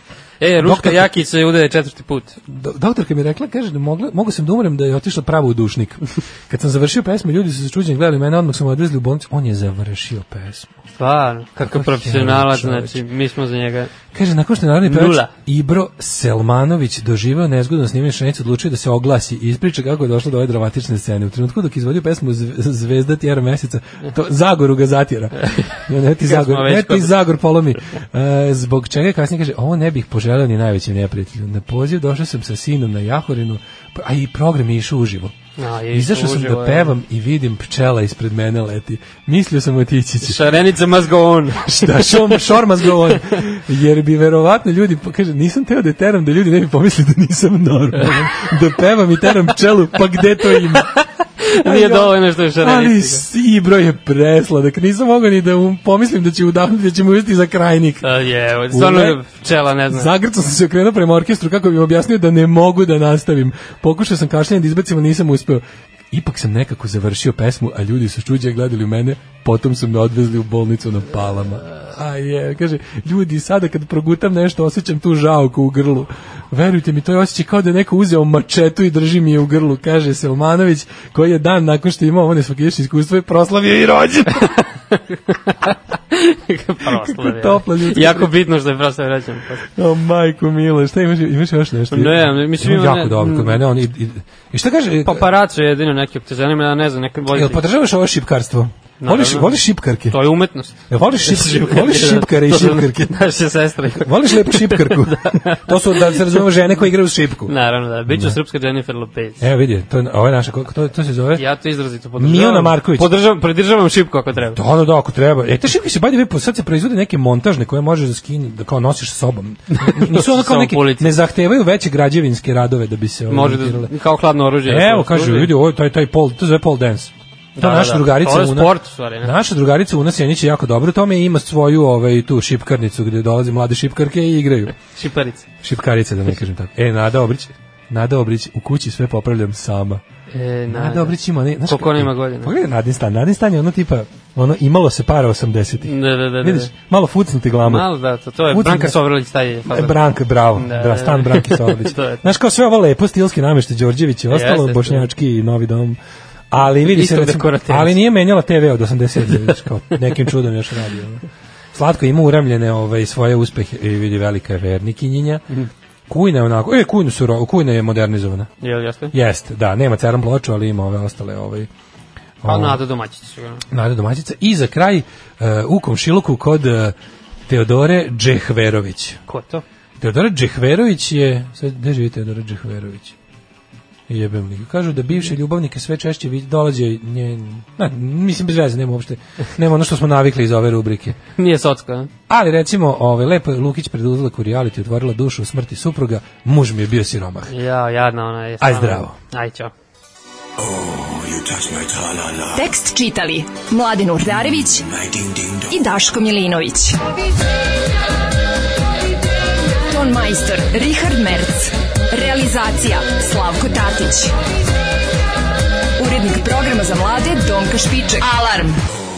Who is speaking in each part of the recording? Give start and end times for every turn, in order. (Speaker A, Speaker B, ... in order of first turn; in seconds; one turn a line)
Speaker A: 0.4-2.4
Speaker B: 0.6-1.1
Speaker B: 2.5-10.8
Speaker A: 11.0-13.9
Speaker B: 11.6-13.0
Speaker B: 14.1-35.3
Speaker A: 14.8-15.3
Speaker A: 25.4-27.2
Speaker A: 35.6-36.9
Speaker B: 35.9-40.5
Speaker A: 40.2-42.4
Speaker B: 41.6-50.9
Speaker A: 43.1-43.4
Speaker A: 48.0-48.5
Speaker A: 50.4-53.2
Speaker B: 51.6-58.1
Speaker A: 58.0-60.1
Speaker B: 58.7-59.2
Speaker B: 59.9-84.6
Speaker A: 84.9-89.7
Speaker B: 86.8-88.3
Speaker B: 89.8-95.3
Speaker A: 91.9-93.6
Speaker A: 95.0-97.6
Speaker B: 97.3-100.2
Speaker A: 99.0-99.6
Speaker A: 100.1-106.4
Speaker B: 100.9-103.2
Speaker B: 104.0-107.5
Speaker A: 107.5-109.4
Speaker B: 108.1-108.4
Speaker B: 109.4-111.4
Speaker A: 111.4-114.6
Speaker B: 112.2-113.1
Speaker B: 114.5-123.9
Speaker A: 119.8-121.1
Speaker A: 123.3-125.5
Speaker B: 124.7-134.8
Speaker A: 127.6-129.3
Speaker A: 134.9-135.5
Speaker B: 135.6-140.0
Speaker A: 140.3-142.5
Speaker B: 140.7-147.9
Speaker A: 145.8-146.7
Speaker A: 147.6-150.0
Speaker B: 148.5-149.0
Speaker B: 149.7-156.0
Speaker A: 150.6-152.2
Speaker A: 154.3-155.1
Speaker B: 156.5-161.2
Speaker A: 156.8-158.0
Speaker B: 161.7-165.4
Speaker B: 166.1-168.5
Speaker A: 168.6-169.1
Speaker B: 169.1-171.7
Speaker B: 172.4-172.8
Speaker A: 172.4-173.6
Speaker B: 173.7-176.9
Speaker B: 177.5-179.2
Speaker A: 179.3-179.6
Speaker B: 180.0-183.2
Speaker B: 184.1-191.2
Speaker A: 191.4-192.1
Speaker B: 192.3-197.5
Speaker A: 197.5-199.7
Speaker B: 198.6-199.2
Speaker B: 200.6-202.6
Speaker C: 202.5-204.9
Speaker B: 205.0-205.6
Speaker C: 205.6-207.1
Speaker C: 209.7-214.3
Speaker C: 216.0-218.8